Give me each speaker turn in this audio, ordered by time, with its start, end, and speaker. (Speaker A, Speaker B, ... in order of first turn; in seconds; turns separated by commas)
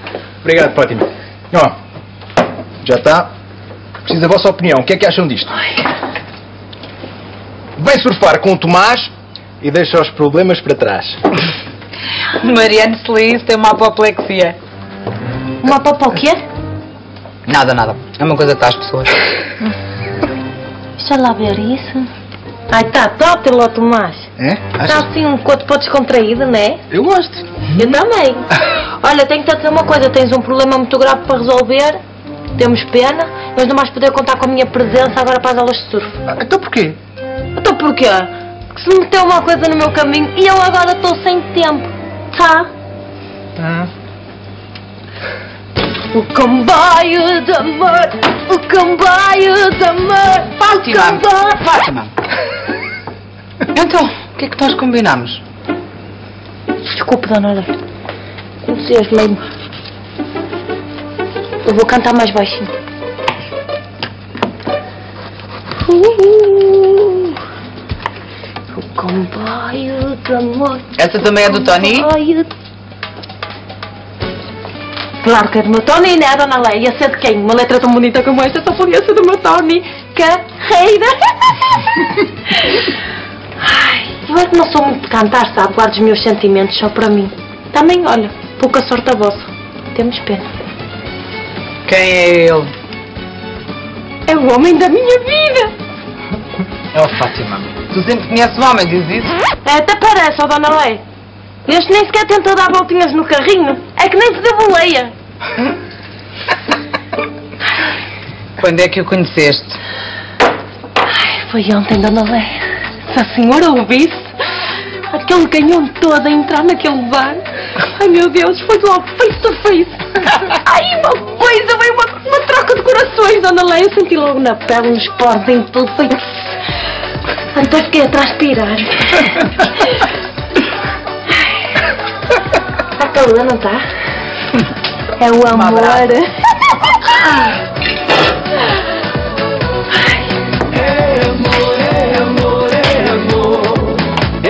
Speaker A: 0.4-1.7, Speaker A: 2.8-3.3, Speaker A: 4.0-5.5, Speaker A: 7.8-11.2, Speaker B: 12.4-14.6, Speaker C: 15.6-16.4, Speaker B: 17.5-19.2, Speaker C: 21.0-22.1, Speaker C: 22.7-26.8, Speaker A: 24.5-24.7, Speaker A: 26.9-27.4, Speaker C: 27.7-32.0, Speaker C: 32.5-36.2, Speaker A: 36.3-37.0, Speaker C: 37.5-42.7, Speaker C: 46.1-51.6, Speaker B: 50.6-52.1, Speaker B: 53.7-55.4, Speaker C: 56.9-57.8, Speaker C: 58.6-59.4, Speaker C: 61.6-62.7, Speaker C: 65.8-67.4, Speaker C: 68.7-72.5, Speaker B: 71.0-72.1, Speaker C: 75.2-81.6, Speaker C: 82.5-82.9, Speaker C: 83.6-90.5, Speaker B: 91.8-92.7, Speaker C: 94.2-95.7, Speaker B: 96.9-99.4, Speaker C: 99.6-101.0, Speaker C: 101.7-105.1, Speaker B: 108.6-109.8, Speaker C: 111.1-114.3, Speaker C: 115.1-117.4, Speaker C: 117.9-126.5, Speaker C: 127.5-130.1, Speaker C: 133.0-133.8, Speaker C: 135.2-136.3, Speaker B: 135.5-136.1, Speaker B: 143.1-143.4